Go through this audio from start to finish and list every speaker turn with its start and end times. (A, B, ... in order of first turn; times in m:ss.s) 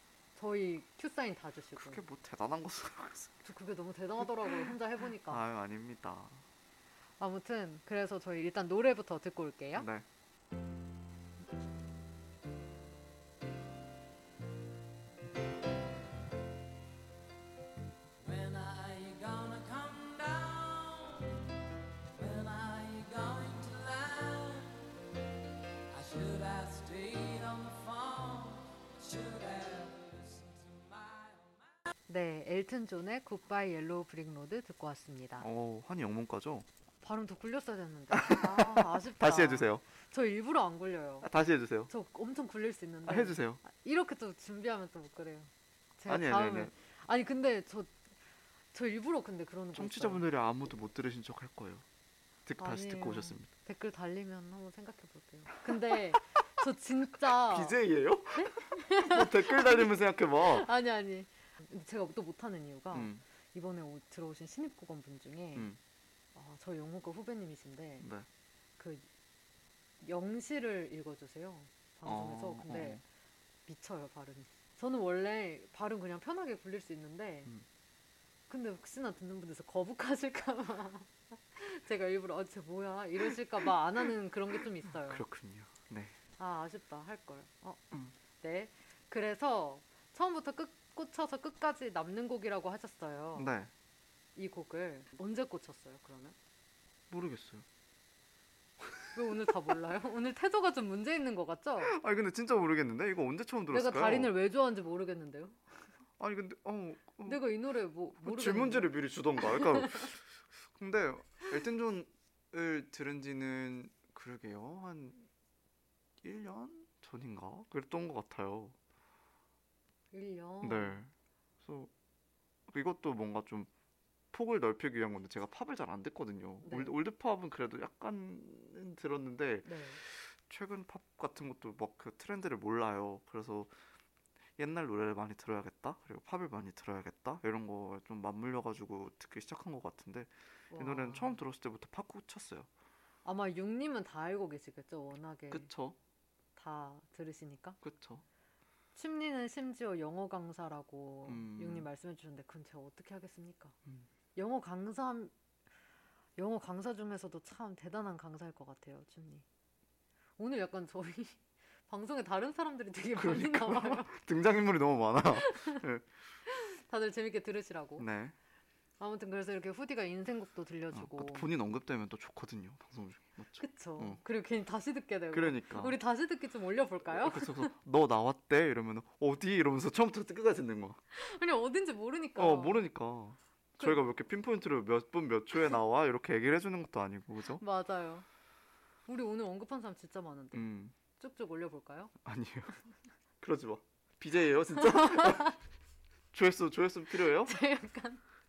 0:00.4-0:02.0 A
0:01.8-0:03.4 B
0:03.4-0:05.4 A
0:05.3-0:06.4 B
0:07.2-0:09.9 A
0:09.7-0:10.0 B
0:18.2-0:21.5 C
0:22.1-0:24.9 C
0:25.9-0:31.8 C
0:32.1-0:35.5 A
0:35.4-0:36.7 B
0:37.0-0:41.3 A
0:38.1-0:39.8 B
0:41.2-0:41.9 B
0:41.9-0:48.0 A
0:43.0-0:43.6 B
0:46.1-0:46.7 B
0:48.7-0:50.2 A
0:49.7-0:51.8 B
0:52.4-0:53.5 B
0:52.6-0:57.7 A
0:55.7-0:56.2 B
0:57.2-1:00.7 B
0:58.3-0:59.9 A
1:00.4-1:05.7 A
1:02.9-1:03.2 B
1:06.3-1:08.1 A
1:08.0-1:08.2 B
1:08.8-1:09.0 A
1:10.0-1:13.0 A
1:12.0-1:13.0 B
1:13.7-1:17.5 A
1:18.5-1:25.2 A
1:24.9-1:26.2 B
1:26.4-1:27.8 A
1:28.4-1:33.5 A
1:33.3-1:33.7 B
1:34.4-1:36.3 A
1:37.1-1:37.6 B
1:38.8-1:39.2 B
1:39.1-1:41.9 A
1:41.8-1:44.3 B
1:43.7-1:45.7 A
1:46.2-1:47.4 B
1:47.2-1:50.1 A
1:48.2-1:55.3 B
1:56.2-1:58.8 B
2:00.1-2:01.0 A
2:00.6-2:01.9 B
2:02.7-2:03.7 B
2:04.3-2:13.7 B
2:06.6-2:06.9 A
2:09.6-2:10.0 A
2:14.6-2:22.7 B
2:20.7-2:21.4 A
2:23.2-2:25.7 A
2:25.5-2:26.0 B
2:26.6-2:27.8 A
2:27.8-2:28.2 B
2:28.9-2:33.7 A
2:31.2-2:31.9 B
2:34.3-2:35.3 A
2:36.4-2:39.4 A
2:40.4-2:44.1 A
2:43.2-2:46.1 B
2:45.4-2:45.8 A
2:46.5-2:48.1 A
2:48.0-2:48.3 B
2:49.0-2:51.4 A
2:50.9-2:54.2 B
2:53.6-2:57.7 A
2:55.3-2:56.0 B
2:57.1-3:01.0 B
3:01.1-3:02.9 A
3:02.4-3:07.6 B
3:03.8-3:04.0 A
3:07.6-3:08.2 A
3:09.1-3:10.6 A
3:10.5-3:10.9 B
3:11.2-3:12.1 A
3:12.2-3:12.7 B
3:13.4-3:15.6 B
3:14.8-3:15.6 A
3:16.3-3:17.6 B
3:17.3-3:18.2 A